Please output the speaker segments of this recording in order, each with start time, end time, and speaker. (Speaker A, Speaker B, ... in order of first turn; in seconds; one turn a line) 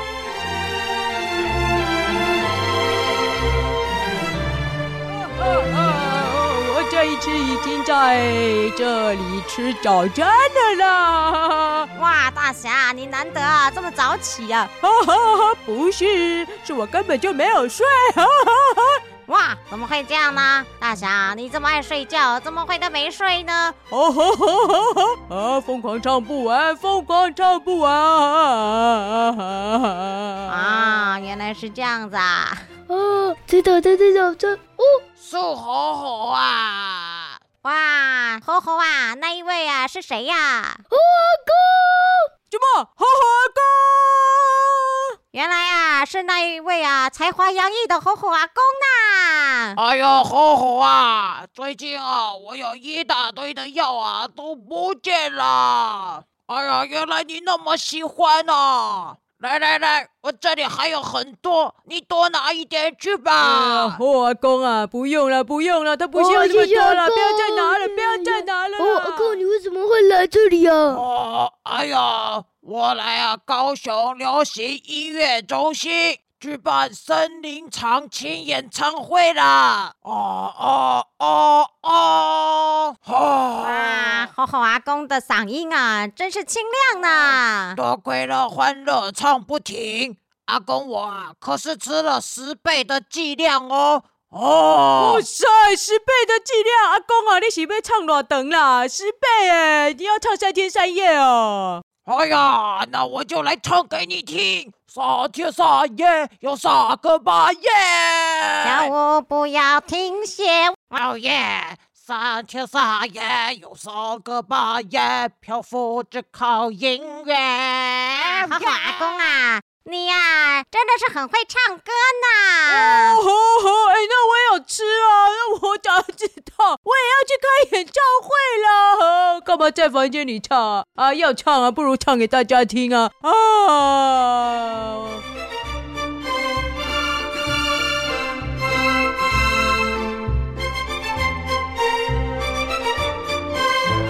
Speaker A: 5.2-11.9
Speaker B: 11.9-14.7
Speaker A: 14.8-19.0
Speaker B: 19.3-23.8
Speaker A: 23.9-30.8
Speaker B: 30.5-32.6
Speaker C: 32.9-35.0
Speaker D: 35.2-37.4
Speaker B: 37.6-40.8
Speaker C: 40.9-42.3
Speaker A: 42.5-45.0
Speaker B: 45.3-49.8
Speaker D: 49.8-64.0
Speaker A: 63.4-69.4
Speaker C: 66.2-71.0
Speaker D: 70.9-84.3
Speaker B: 83.6-87.8
Speaker D: 87.8-95.2
Speaker A: 95.0-101.8
Speaker D: 102.0-108.9
Speaker B: 108.6-111.0
Speaker D: 110.9-119.2
Speaker B: 118.1-123.2
Speaker A: 122.7-135.2